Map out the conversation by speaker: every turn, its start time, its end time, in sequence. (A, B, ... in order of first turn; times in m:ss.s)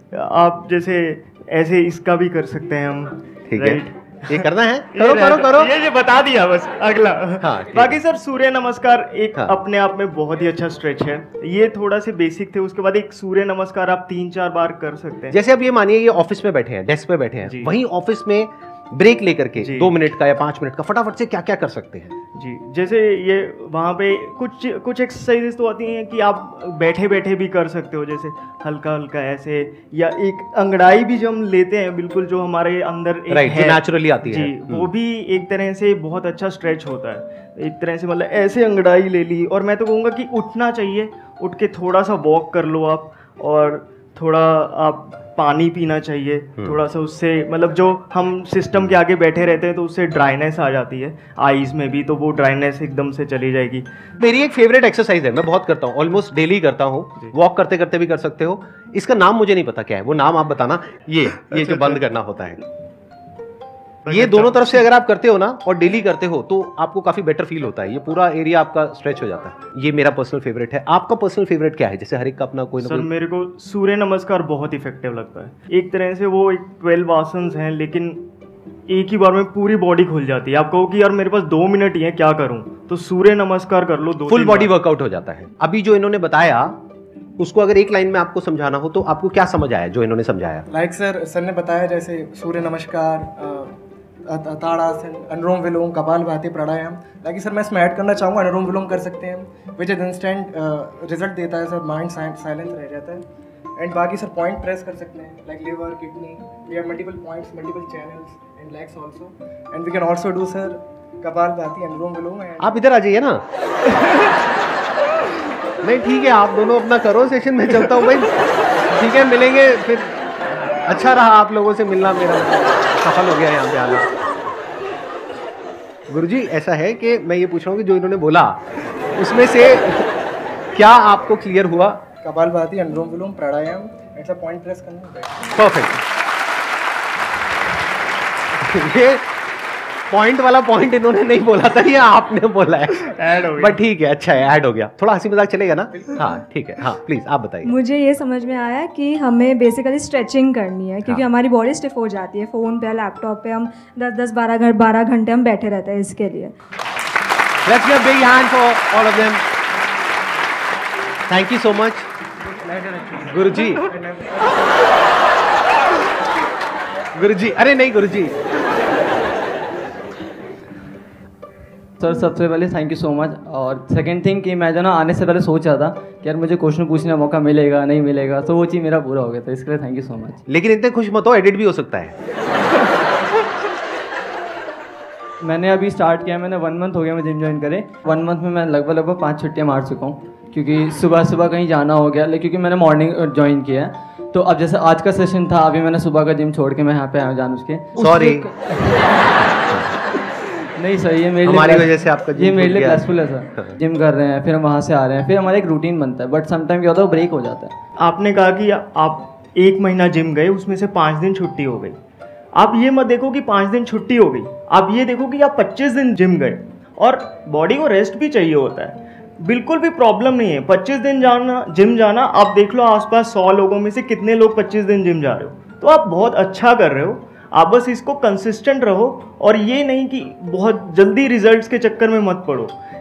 0:00.1-0:15.4 A
0:03.5-0:05.7 B
0:07.4-0:08.0 B
0:15.3-0:22.1 B
0:17.4-0:17.7 A
0:19.6-0:19.9 A
0:22.4-0:53.9 A
0:33.3-0:34.9 B
0:54.2-1:02.6 B
1:01.5-1:02.0 A
1:04.1-1:04.7 A
1:04.1-1:13.1 B
1:12.8-1:18.2 A
1:18.9-1:24.7 A
1:24.3-1:26.8 B
1:27.4-1:30.6 B
1:30.7-1:33.8 C
1:34.3-1:43.2 C
1:43.8-1:52.8 C
1:52.6-1:53.4 B
1:55.8-2:00.2 B
2:00.9-2:04.1 B
2:06.1-2:08.6 B
2:09.2-2:10.1 B
2:10.7-2:12.1 B
2:12.2-2:15.4 C
2:15.6-2:16.0 B
2:18.6-2:19.4 B
2:20.1-2:27.7 B
2:23.0-2:23.8 A
2:27.6-2:36.5 D
2:37.7-2:39.5 B
2:41.3-2:42.1 B
2:42.4-2:44.9 C
2:43.3-2:43.8 B
2:47.2-2:48.4 B
2:52.0-3:00.4 E
3:00.5-3:02.2 B
3:05.4-3:19.0 E
3:18.0-3:18.5 B
3:20.8-3:27.8 E
3:21.4-3:23.8 B
3:28.0-3:32.0 A
3:32.6-3:52.8 A